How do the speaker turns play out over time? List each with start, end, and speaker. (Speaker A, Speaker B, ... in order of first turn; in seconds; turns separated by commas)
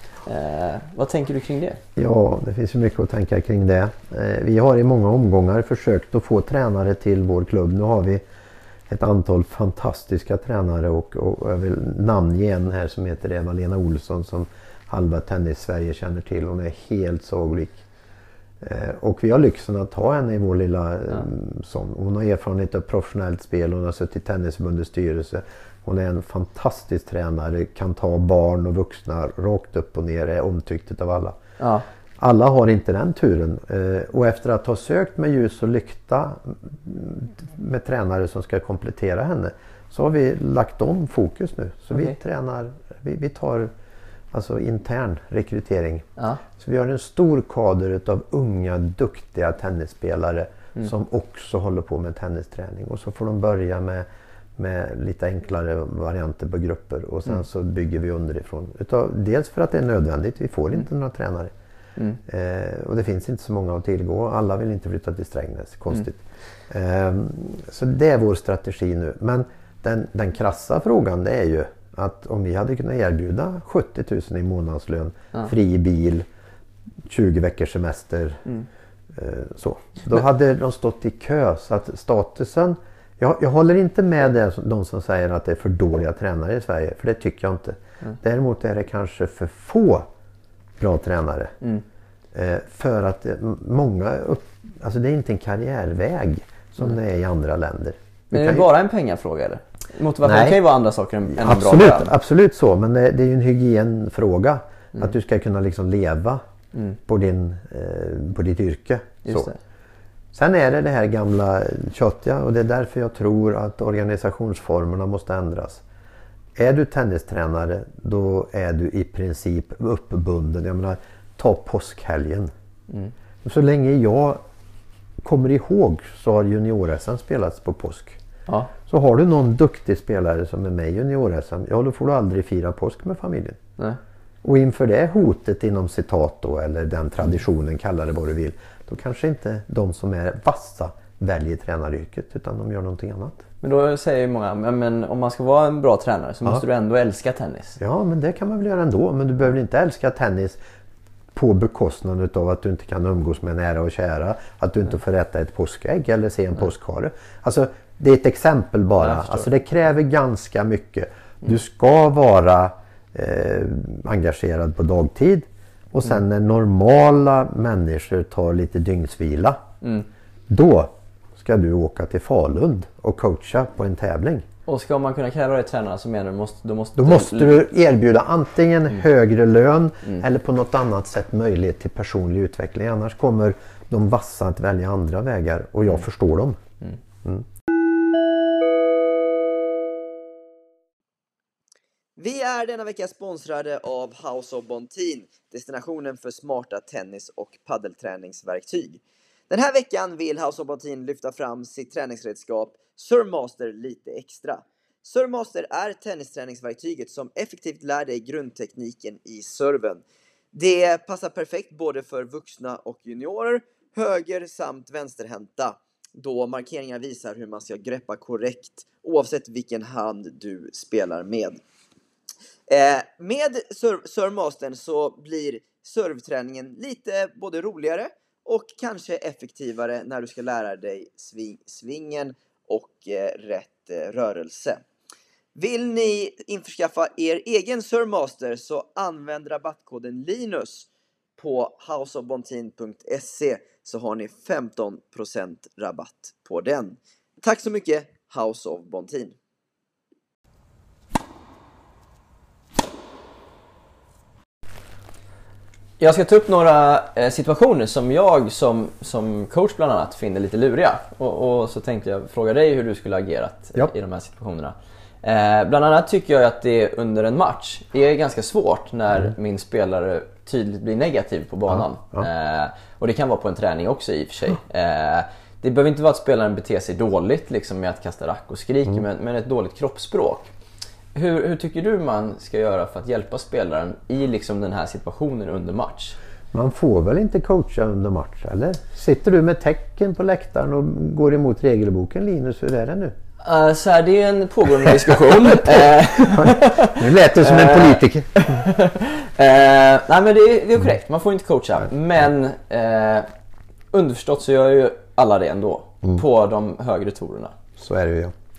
Speaker A: 0.2-1.8, Speaker B: 2.0-8.2, Speaker B: 8.9-17.8, Speaker B: 18.6-31.4, Speaker A: 31.6-31.9, Speaker B: 32.2-43.7, Speaker B: 44.3-54.0, Speaker B: 54.6-61.5, Speaker B: 62.3-76.3, Speaker B: 77.1-78.5, Speaker B: 79.1-90.1, Speaker B: 90.8-91.5, Speaker B: 92.3-98.7, Speaker A: 98.3-102.1, Speaker B: 100.2-100.7, Speaker B: 101.3-106.4, Speaker B: 107.1-109.5, Speaker A: 109.3-109.6, Speaker B: 110.3-115.8, Speaker B: 116.6-122.5, Speaker B: 123.4-124.4, Speaker B: 125.2-128.2, Speaker B: 128.9-133.6, Speaker B: 134.4-143.4, Speaker A: 143.6-147.8, Speaker B: 147.8-150.6, Speaker B: 151.3-169.6, Speaker A: 159.0-159.5, Speaker A: 169.8-170.1, Speaker B: 170.5-174.5, Speaker A: 174.7-177.7, Speaker B: 177.0-186.6, Speaker C: 192.2-221.6, Speaker C: 222.7-234.8, Speaker C: 235.6-249.4, Speaker A: 256.0-280.5, Speaker B: 271.7-272.3, Speaker A: 281.1-286.2, Speaker B: 286.5-293.2, Speaker A: 293.4-303.3, Speaker B: 295.5-298.6, Speaker A: 303.9-307.6, Speaker B: 307.8-308.3